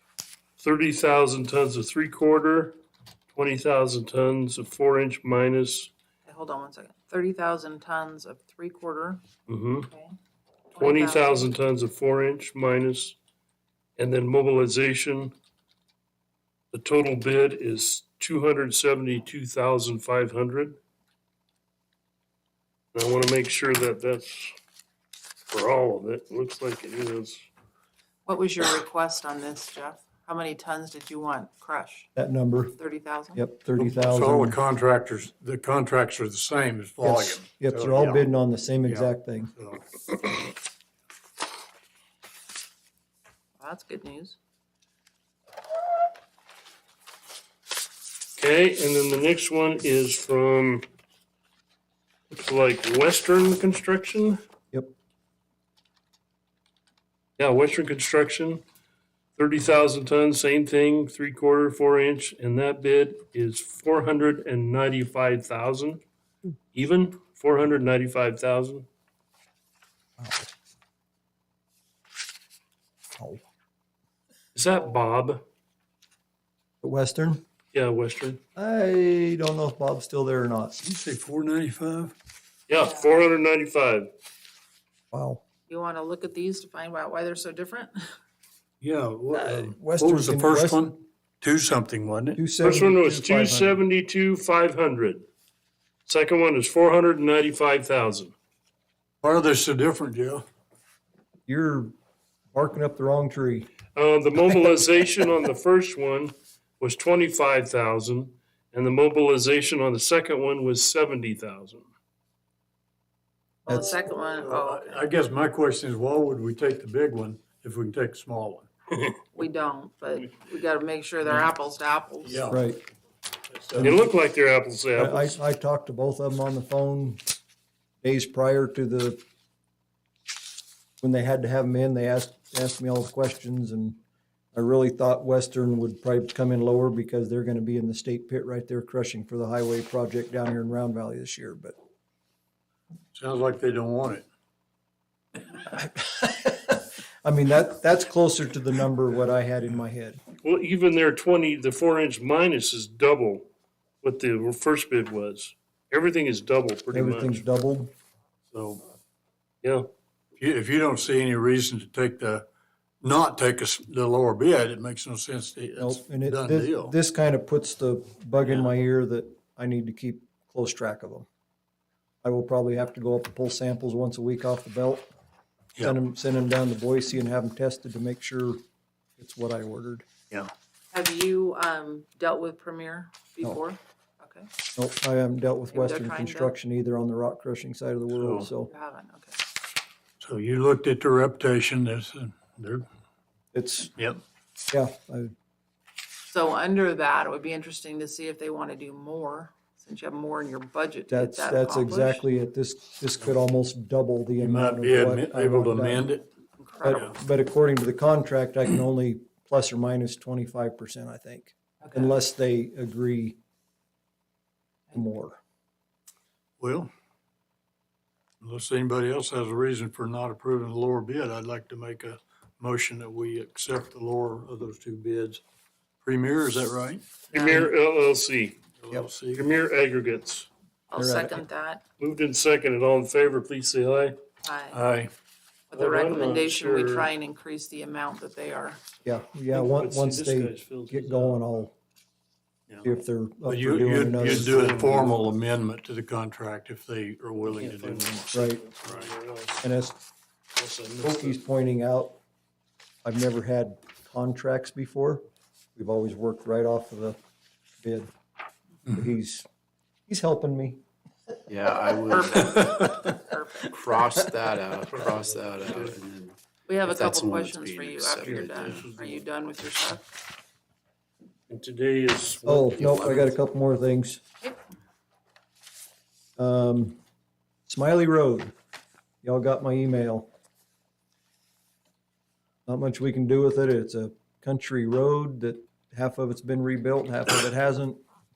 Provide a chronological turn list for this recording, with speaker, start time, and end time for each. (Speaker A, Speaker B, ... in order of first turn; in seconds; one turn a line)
Speaker A: 0.6-2.8
Speaker A: 3.3-5.9
Speaker B: 6.2-9.2
Speaker A: 9.5-9.9
Speaker B: 9.9-10.2
Speaker A: 10.7-13.2
Speaker B: 10.7-11.5
Speaker A: 14.0-15.3
Speaker A: 16.7-20.8
Speaker A: 22.9-24.5
Speaker A: 25.5-27.4
Speaker B: 28.2-32.1
Speaker C: 32.1-32.8
Speaker B: 32.7-33.4
Speaker C: 33.3-34.6
Speaker D: 33.8-38.3
Speaker C: 37.0-39.5
Speaker D: 38.8-39.8
Speaker B: 43.6-44.4
Speaker A: 48.4-50.8
Speaker A: 52.3-54.4
Speaker A: 57.4-58.6
Speaker A: 59.4-66.0
Speaker A: 66.7-68.8
Speaker C: 70.2-70.5
Speaker C: 73.2-73.4
Speaker A: 74.5-75.4
Speaker C: 76.8-77.4
Speaker A: 77.7-78.4
Speaker C: 78.5-80.8
Speaker D: 80.8-82.1
Speaker A: 82.7-84.1
Speaker C: 85.1-85.4
Speaker B: 85.7-88.0
Speaker D: 88.8-92.5
Speaker C: 89.3-90.9
Speaker C: 92.3-93.8
Speaker A: 92.6-95.2
Speaker A: 96.0-98.3
Speaker D: 99.2-100.4
Speaker C: 101.5-101.9
Speaker C: 102.5-103.7
Speaker A: 103.9-111.8
Speaker B: 113.7-115.0
Speaker C: 113.7-114.0
Speaker D: 114.3-118.7
Speaker B: 119.3-122.5
Speaker D: 122.2-122.7
Speaker C: 122.5-122.8
Speaker D: 123.5-124.0
Speaker A: 123.8-125.4
Speaker C: 124.9-127.2
Speaker C: 128.0-129.2
Speaker C: 131.0-134.0
Speaker C: 134.5-141.7
Speaker D: 143.1-144.2
Speaker C: 145.6-150.2
Speaker A: 150.4-153.5
Speaker A: 154.0-157.4
Speaker C: 156.9-157.9
Speaker D: 158.5-158.9
Speaker D: 160.4-162.4
Speaker D: 163.0-166.9
Speaker C: 165.8-171.3
Speaker C: 172.2-175.1
Speaker C: 175.8-178.6
Speaker C: 179.2-180.0
Speaker B: 180.9-184.5
Speaker C: 184.7-188.7
Speaker B: 185.7-186.5
Speaker D: 188.1-188.5
Speaker B: 188.6-189.4
Speaker D: 190.2-192.8
Speaker C: 193.5-193.9
Speaker D: 193.9-194.2
Speaker C: 194.7-195.3
Speaker B: 196.3-202.2
Speaker C: 201.1-206.1
Speaker D: 204.3-206.3
Speaker B: 206.6-207.1
Speaker C: 206.8-213.4
Speaker D: 206.9-207.1
Speaker B: 211.8-212.1
Speaker C: 214.9-215.4
Speaker D: 216.6-216.9
Speaker D: 218.4-225.4
Speaker D: 226.0-227.1
Speaker A: 227.3-228.6
Speaker B: 227.3-227.7
Speaker D: 228.8-229.5
Speaker A: 229.3-230.5
Speaker B: 230.9-231.8
Speaker C: 230.9-231.4
Speaker A: 232.0-234.1
Speaker B: 234.4-234.8
Speaker D: 234.7-235.1
Speaker B: 235.7-238.8
Speaker A: 235.7-237.1
Speaker C: 239.0-241.7
Speaker A: 239.5-241.4
Speaker C: 242.8-245.2
Speaker D: 243.4-248.2
Speaker A: 244.3-245.1
Speaker A: 247.5-249.7
Speaker C: 248.3-248.7
Speaker D: 248.8-249.1
Speaker C: 249.6-250.0
Speaker A: 250.6-251.4
Speaker C: 251.0-252.2
Speaker C: 253.0-255.2
Speaker C: 255.8-257.2
Speaker C: 257.8-258.1
Speaker C: 258.9-259.4
Speaker C: 260.1-260.8
Speaker E: 261.5-262.4
Speaker B: 261.9-264.2
Speaker D: 262.5-263.1
Speaker E: 263.7-268.8
Speaker A: 264.9-266.0
Speaker B: 266.7-270.0
Speaker A: 268.2-269.2
Speaker A: 271.5-273.1
Speaker C: 272.4-274.2
Speaker C: 276.4-277.0
Speaker C: 277.7-278.5
Speaker C: 279.2-280.3
Speaker C: 282.6-288.0